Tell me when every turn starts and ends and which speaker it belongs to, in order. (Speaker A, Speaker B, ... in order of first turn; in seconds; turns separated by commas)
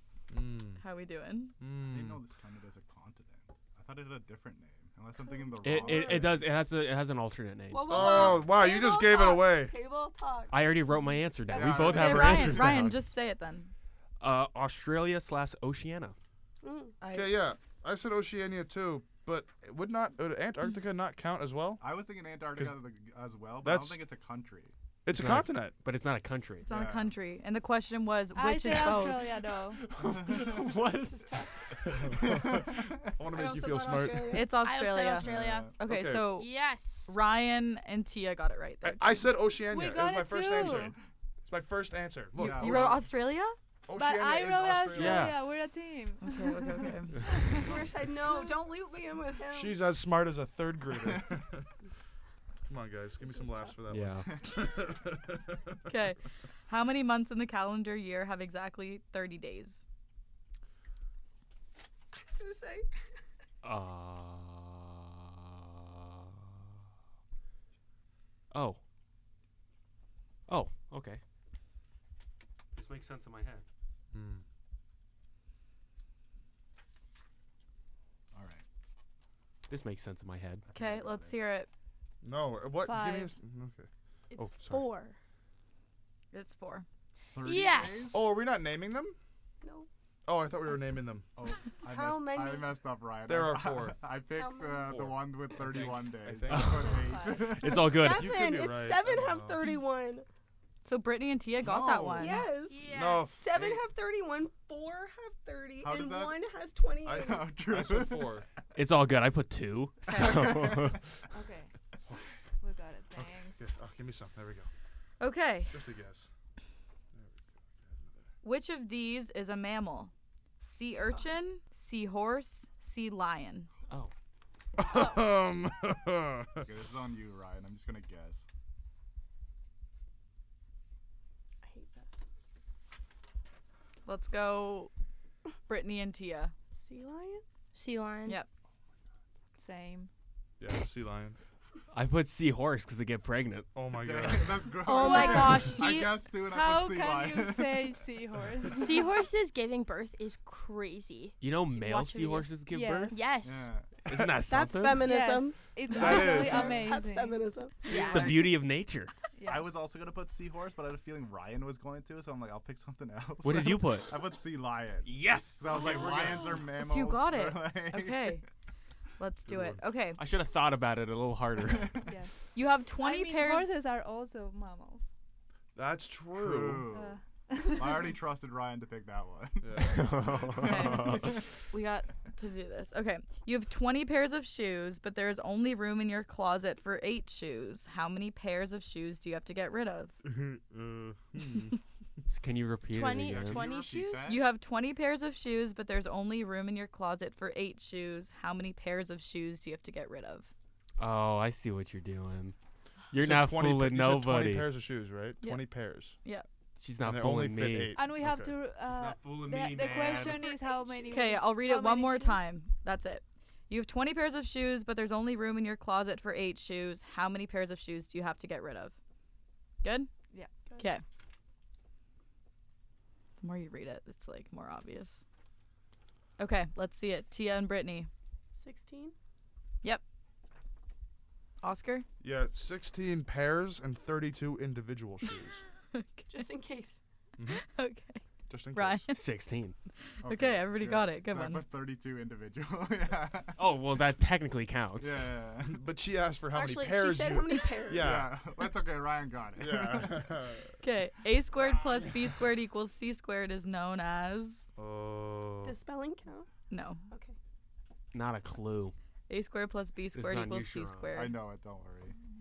Speaker A: 0.3-0.8, Speaker B: 0.8-1.5, Speaker A: 1.6-2.2, Speaker C: 1.8-6.5, Speaker D: 5.6-8.4, Speaker E: 5.8-6.1, Speaker E: 7.7-10.6, Speaker A: 7.9-9.7, Speaker D: 10.5-13.0, Speaker E: 11.5-11.8, Speaker C: 11.5-12.5, Speaker B: 11.8-13.7, Speaker A: 11.8-12.7, Speaker D: 14.2-16.1, Speaker E: 16.6-16.9, Speaker B: 17.0-17.3, Speaker A: 17.1-21.8, Speaker C: 21.8-24.7, Speaker A: 23.6-24.0, Speaker A: 25.0-25.7, Speaker D: 25.1-26.7, Speaker B: 26.6-29.2, Speaker C: 26.6-27.1, Speaker F: 28.4-29.8, Speaker D: 29.7-31.5, Speaker C: 30.2-30.6, Speaker E: 31.1-31.5, Speaker A: 31.9-34.4, Speaker C: 32.2-32.5, Speaker E: 33.3-34.6, Speaker B: 34.3-36.5, Speaker G: 34.6-35.8, Speaker C: 35.1-35.7, Speaker A: 35.8-36.3, Speaker G: 36.3-37.1, Speaker B: 37.1-39.4, Speaker A: 38.8-43.1, Speaker F: 39.6-40.9, Speaker B: 42.4-43.5, Speaker C: 42.4-43.0, Speaker A: 43.9-45.4, Speaker F: 44.0-47.7, Speaker D: 44.9-45.3, Speaker B: 46.2-47.1, Speaker E: 47.5-49.8, Speaker A: 49.5-51.7, Speaker A: 52.7-55.5, Speaker E: 53.2-53.8, Speaker D: 53.9-54.3, Speaker B: 55.9-59.8, Speaker E: 62.1-62.9, Speaker D: 63.6-66.4, Speaker D: 68.5-68.8, Speaker D: 70.5-71.2, Speaker D: 72.7-73.6, Speaker A: 74.1-74.4, Speaker C: 78.3-78.6, Speaker D: 79.7-80.6, Speaker C: 80.7-81.4, Speaker B: 80.7-81.7, Speaker A: 82.2-84.8, Speaker F: 82.8-83.3, Speaker E: 84.3-85.2, Speaker B: 86.3-86.8, Speaker C: 87.3-88.3, Speaker G: 87.4-88.2, Speaker A: 88.1-89.2, Speaker E: 89.6-89.9, Speaker A: 90.2-91.2, Speaker C: 91.3-98.0, Speaker E: 91.8-92.8, Speaker A: 93.2-94.0, Speaker E: 94.3-95.0, Speaker A: 94.9-97.0, Speaker D: 96.5-98.3, Speaker F: 96.8-97.7, Speaker E: 97.6-100.2, Speaker A: 98.0-99.6, Speaker B: 100.8-102.4, Speaker A: 101.6-102.3, Speaker E: 102.2-107.5, Speaker G: 102.7-103.3, Speaker A: 102.9-103.7, Speaker C: 105.8-106.4, Speaker A: 107.0-108.4, Speaker C: 107.2-108.4, Speaker D: 108.7-111.0, Speaker B: 110.1-110.4, Speaker F: 111.3-111.7, Speaker F: 112.6-113.7, Speaker A: 113.2-114.7, Speaker B: 115.2-115.8, Speaker A: 115.7-116.3, Speaker A: 117.9-118.1, Speaker B: 118.4-123.7, Speaker A: 124.8-126.6, Speaker C: 126.6-128.5, Speaker E: 131.6-132.2, Speaker B: 134.1-134.9, Speaker B: 135.7-136.5, Speaker E: 136.7-137.4, Speaker G: 137.7-138.4, Speaker F: 139.6-140.1, Speaker A: 140.6-141.4, Speaker D: 141.9-143.7, Speaker A: 143.7-144.8, Speaker C: 143.9-147.8, Speaker G: 144.8-146.2, Speaker E: 145.1-145.6, Speaker F: 146.5-149.0, Speaker G: 148.7-152.6, Speaker D: 151.4-153.2, Speaker F: 152.7-153.3, Speaker G: 153.1-153.7, Speaker C: 153.4-153.9, Speaker D: 154.1-155.1, Speaker E: 154.5-157.9, Speaker F: 155.0-157.4, Speaker A: 155.9-156.8, Speaker G: 157.8-158.4, Speaker D: 157.9-159.1, Speaker F: 159.4-159.7, Speaker C: 159.4-168.4, Speaker D: 163.4-164.1, Speaker D: 165.0-166.6, Speaker B: 166.7-168.4, Speaker B: 169.2-170.2, Speaker A: 169.5-169.8, Speaker D: 170.2-172.0, Speaker B: 172.5-173.7, Speaker F: 173.0-175.1, Speaker A: 175.8-176.9, Speaker C: 176.3-177.2, Speaker F: 176.9-178.1, Speaker C: 177.7-181.3, Speaker A: 179.6-180.2, Speaker D: 179.8-181.4, Speaker B: 180.6-190.1, Speaker A: 190.2-191.8, Speaker D: 192.3-193.7, Speaker G: 192.9-194.4, Speaker C: 193.0-194.5, Speaker B: 194.2-200.5, Speaker D: 201.0-202.5, Speaker D: 203.1-204.7, Speaker A: 203.1-206.2, Speaker B: 205.4-205.7, Speaker D: 206.8-207.9, Speaker A: 207.0-208.5, Speaker F: 207.9-212.4, Speaker D: 208.9-210.6, Speaker E: 210.3-211.3, Speaker B: 211.1-218.9, Speaker B: 219.8-220.1, Speaker B: 223.4-225.2, Speaker B: 226.4-228.1, Speaker E: 228.5-229.1, Speaker B: 231.6-232.0, Speaker A: 232.2-235.6, Speaker B: 235.9-236.4, Speaker E: 236.3-237.0, Speaker A: 237.4-237.6, Speaker B: 237.7-238.2, Speaker A: 238.5-239.1, Speaker B: 238.7-239.2, Speaker D: 239.1-239.8, Speaker C: 240.2-243.7, Speaker B: 240.2-241.6, Speaker D: 243.6-245.3, Speaker C: 245.0-245.8, Speaker A: 245.6-248.5, Speaker E: 246.5-248.2, Speaker C: 247.9-250.3, Speaker A: 249.6-250.7, Speaker B: 250.8-254.7, Speaker A: 254.8-255.8, Speaker E: 255.6-256.5, Speaker B: 256.7-257.0, Speaker D: 258.1-258.9, Speaker B: 259.3-261.4, Speaker D: 260.1-261.2, Speaker C: 261.1-262.1